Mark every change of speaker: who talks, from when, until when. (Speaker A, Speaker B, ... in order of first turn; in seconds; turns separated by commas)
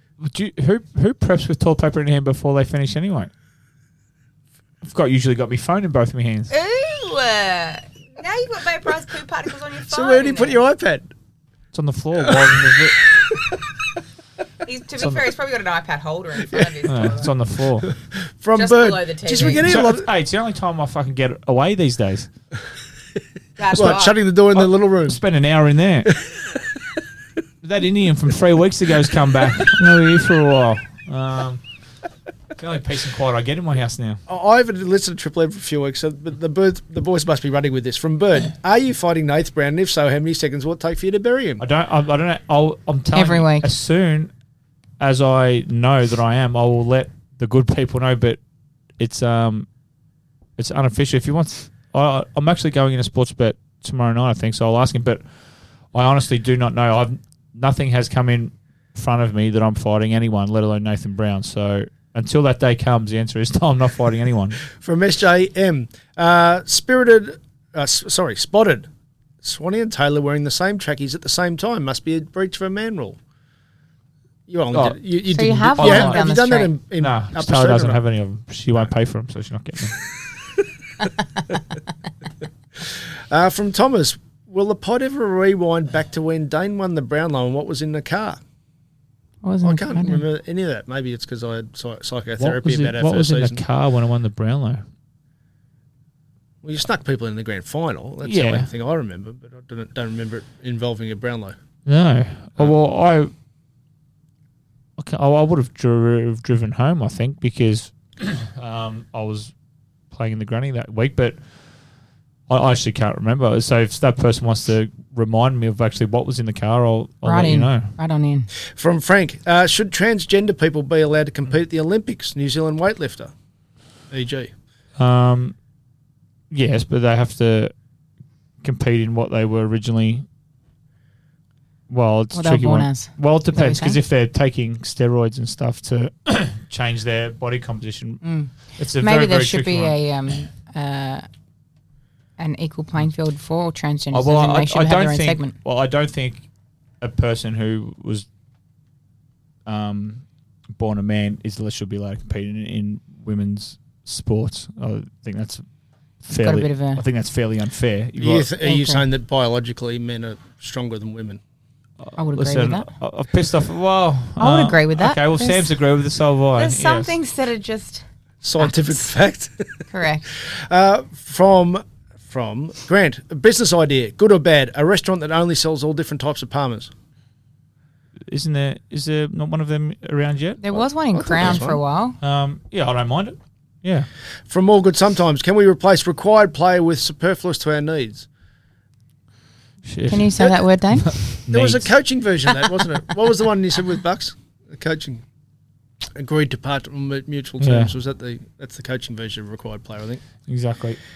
Speaker A: 0.2-3.3, Speaker A: 4.8-6.5, Speaker B: 6.5-10.6, Speaker C: 9.8-11.1, Speaker A: 11.7-12.9, Speaker C: 12.3-12.8, Speaker B: 14.6-17.3, Speaker A: 15.0-15.2, Speaker A: 16.8-17.9, Speaker C: 17.9-20.1, Speaker B: 18.5-19.6, Speaker A: 19.6-22.3, Speaker B: 23.6-24.2, Speaker C: 23.7-25.2, Speaker A: 24.5-26.1, Speaker A: 27.6-31.6, Speaker A: 32.6-34.2, Speaker C: 34.3-41.6, Speaker A: 41.6-44.3, Speaker B: 43.1-43.7, Speaker A: 45.0-48.4, Speaker A: 49.0-49.7, Speaker A: 50.6-55.2, Speaker A: 55.9-64.6, Speaker C: 64.8-68.9, Speaker C: 69.4-73.2, Speaker C: 74.5-78.0, Speaker A: 74.7-76.2, Speaker B: 75.3-76.7, Speaker A: 77.0-80.0, Speaker C: 81.0-81.6, Speaker C: 82.8-88.4, Speaker B: 89.4-90.2, Speaker C: 89.6-93.6, Speaker A: 92.4-94.8, Speaker C: 96.6-101.5, Speaker A: 98.2-98.7, Speaker A: 101.8-103.3, Speaker A: 105.0-109.5, Speaker A: 110.1-111.4, Speaker A: 112.5-117.9, Speaker B: 117.2-118.5, Speaker C: 118.7-123.3, Speaker C: 124.1-124.5, Speaker A: 125.0-125.5, Speaker A: 126.5-127.7, Speaker A: 128.6-130.2, Speaker A: 131.9-140.0, Speaker B: 132.3-134.0, Speaker B: 138.2-141.2, Speaker B: 142.4-145.5, Speaker A: 144.1-146.4, Speaker A: 147.0-148.3, Speaker A: 149.7-155.6, Speaker A: 156.2-158.5, Speaker B: 156.3-157.0, Speaker C: 158.2-161.4, Speaker B: 158.6-159.1, Speaker A: 162.0-167.1, Speaker B: 162.2-162.9, Speaker B: 164.4-165.7, Speaker B: 166.6-168.0, Speaker C: 168.4-169.6, Speaker B: 168.6-169.0, Speaker B: 169.9-170.2, Speaker C: 170.3-176.9, Speaker A: 178.3-180.6, Speaker B: 180.6-182.2, Speaker C: 180.7-181.8, Speaker A: 182.2-184.1, Speaker C: 184.5-188.3, Speaker A: 189.8-191.9, Speaker B: 190.1-191.1, Speaker C: 191.3-195.2, Speaker C: 196.2-200.2, Speaker A: 197.6-197.9, Speaker A: 200.5-201.0